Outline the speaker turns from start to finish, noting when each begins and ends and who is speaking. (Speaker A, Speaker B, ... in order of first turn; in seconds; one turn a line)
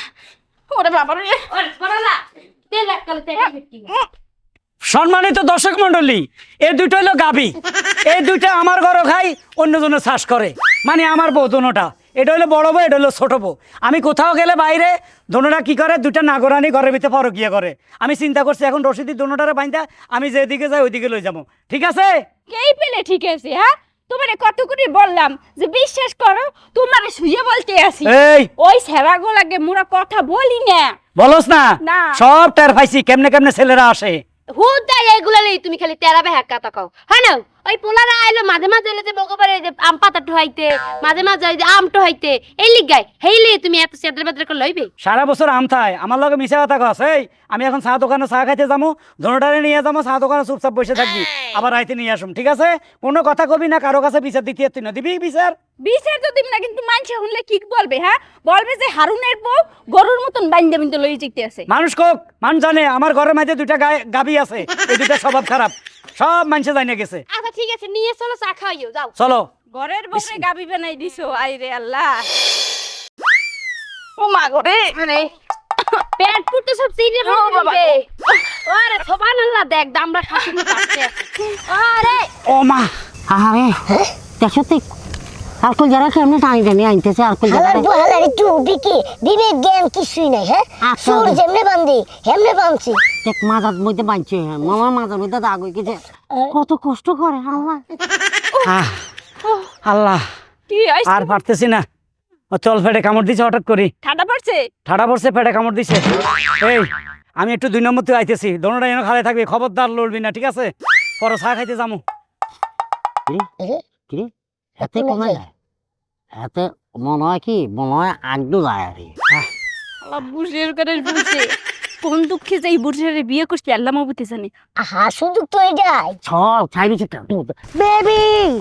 Speaker A: 0.7-1.5
Speaker B: 1.5-3.9
Speaker A: 3.4-4.1
Speaker C: 4.9-7.5
Speaker C: 8.1-22.1
Speaker A: 22.5-31.0
Speaker C: 28.1-28.5
Speaker C: 31.2-34.2
Speaker A: 31.8-32.1
Speaker B: 34.5-44.9
Speaker C: 45.0-55.5
Speaker A: 55.8-61.7
Speaker C: 61.7-67.2
Speaker B: 67.3-69.2
Speaker C: 69.2-69.5
Speaker A: 69.7-72.3
Speaker C: 70.1-70.5
Speaker A: 74.2-75.0
Speaker B: 75.0-75.2
Speaker B: 76.2-78.0
Speaker A: 77.2-78.0
Speaker B: 78.7-81.1
Speaker B: 81.7-82.3
Speaker C: 82.5-82.9
Speaker D: 83.3-83.8
Speaker D: 84.4-84.8
Speaker D: 85.6-87.9
Speaker E: 87.5-93.0
Speaker D: 90.8-91.4
Speaker D: 93.2-97.8
Speaker C: 98.7-99.0
Speaker C: 99.8-100.2
Speaker A: 100.7-101.4
Speaker C: 101.1-101.8
Speaker C: 102.5-103.9
Speaker A: 104.0-104.7
Speaker C: 104.9-106.0
Speaker C: 106.6-106.9
Speaker C: 107.4-112.0
Speaker D: 114.1-115.5
Speaker E: 114.8-115.4
Speaker D: 116.3-119.1
Speaker A: 120.0-121.5
Speaker A: 122.0-124.5
Speaker E: 124.8-126.2
Speaker D: 126.2-128.5
Speaker E: 127.9-128.4